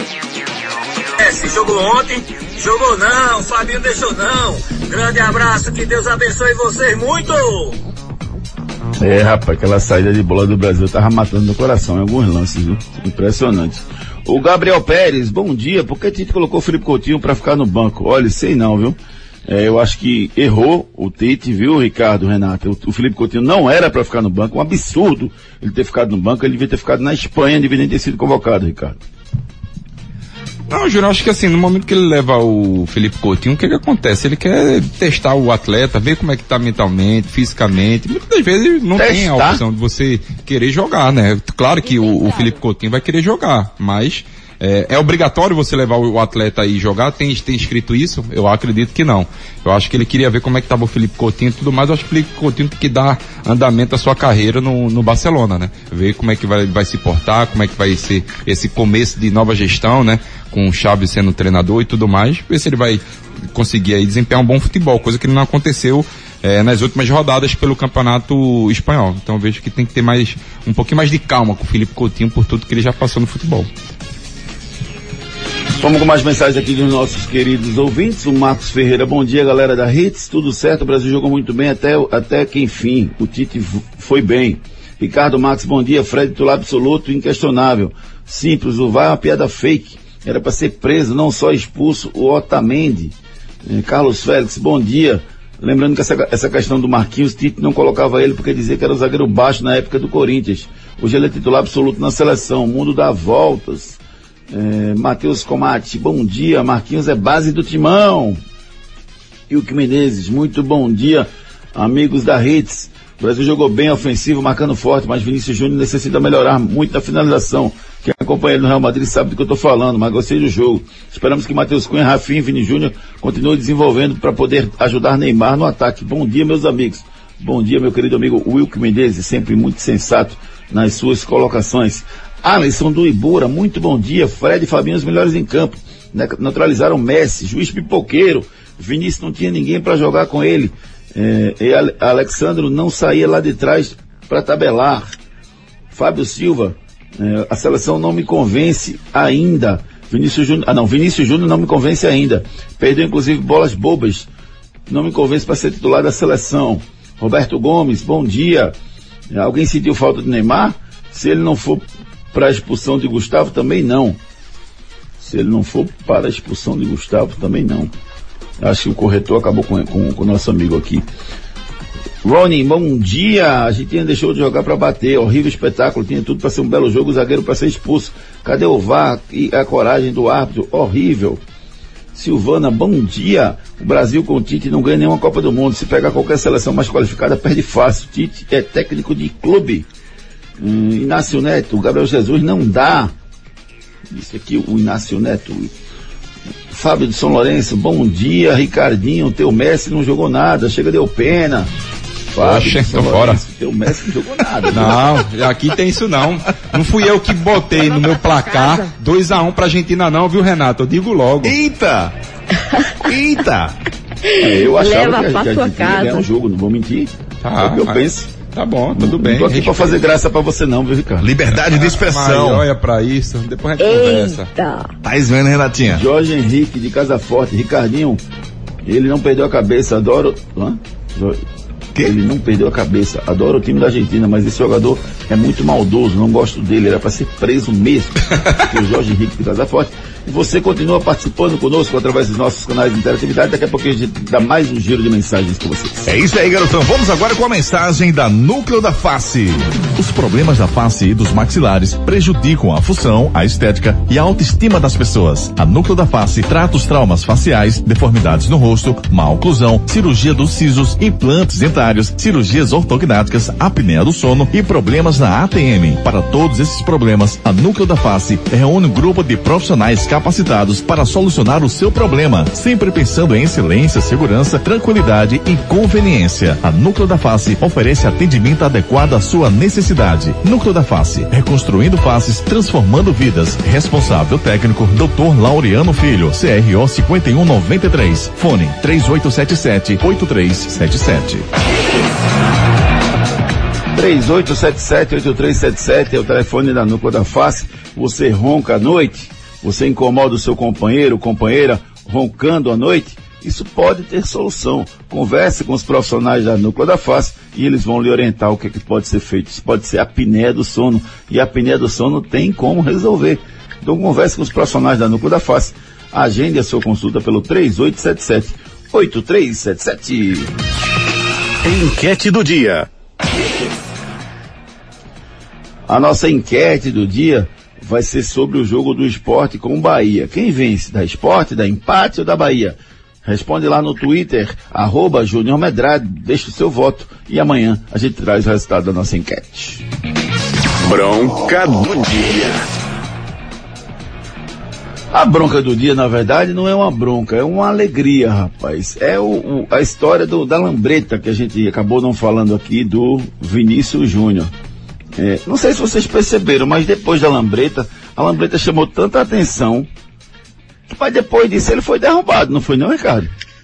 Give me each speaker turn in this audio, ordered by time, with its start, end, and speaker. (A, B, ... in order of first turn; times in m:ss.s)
0:01.2-0:07.8 A
0:09.0-0:29.0 B
0:30.7-1:13.7 C
0:39.0-0:39.6 B
0:41.8-0:42.6 D
1:15.8-1:33.1 B
1:33.7-1:44.0 B
1:44.5-1:48.4 B
1:49.5-2:25.1 B
2:25.9-2:34.3 B
2:34.9-2:38.8 B
2:39.3-2:44.2 B
2:45.2-2:47.9 B
2:48.6-2:51.1 B
2:52.2-3:01.4 B
3:02.1-3:09.9 B
3:10.6-3:13.1 B
3:14.1-3:15.7 B
3:16.7-3:21.7 B
3:22.3-3:25.0 B
3:22.4-3:23.4 C
3:24.7-3:31.6 C
3:28.3-3:28.9 D
3:31.4-3:32.1 E
3:33.0-3:33.8 E
3:34.3-3:36.3 D
3:34.4-3:38.3 B
3:37.4-3:40.0 C
3:38.9-3:41.3 B
3:41.2-3:42.6 E
3:41.5-3:44.5 C
3:43.8-3:44.9 D
3:45.0-3:46.0 E
3:45.9-3:48.2 B
3:48.8-3:51.4 B
3:52.0-4:06.1 B
4:06.0-4:51.5 E
4:54.0-5:20.5 B
5:21.6-5:22.9 F
5:25.9-5:39.8 B
5:40.8-5:42.6 F
5:45.1-5:54.5 B
5:55.2-5:59.9 B
6:00.9-6:03.3 B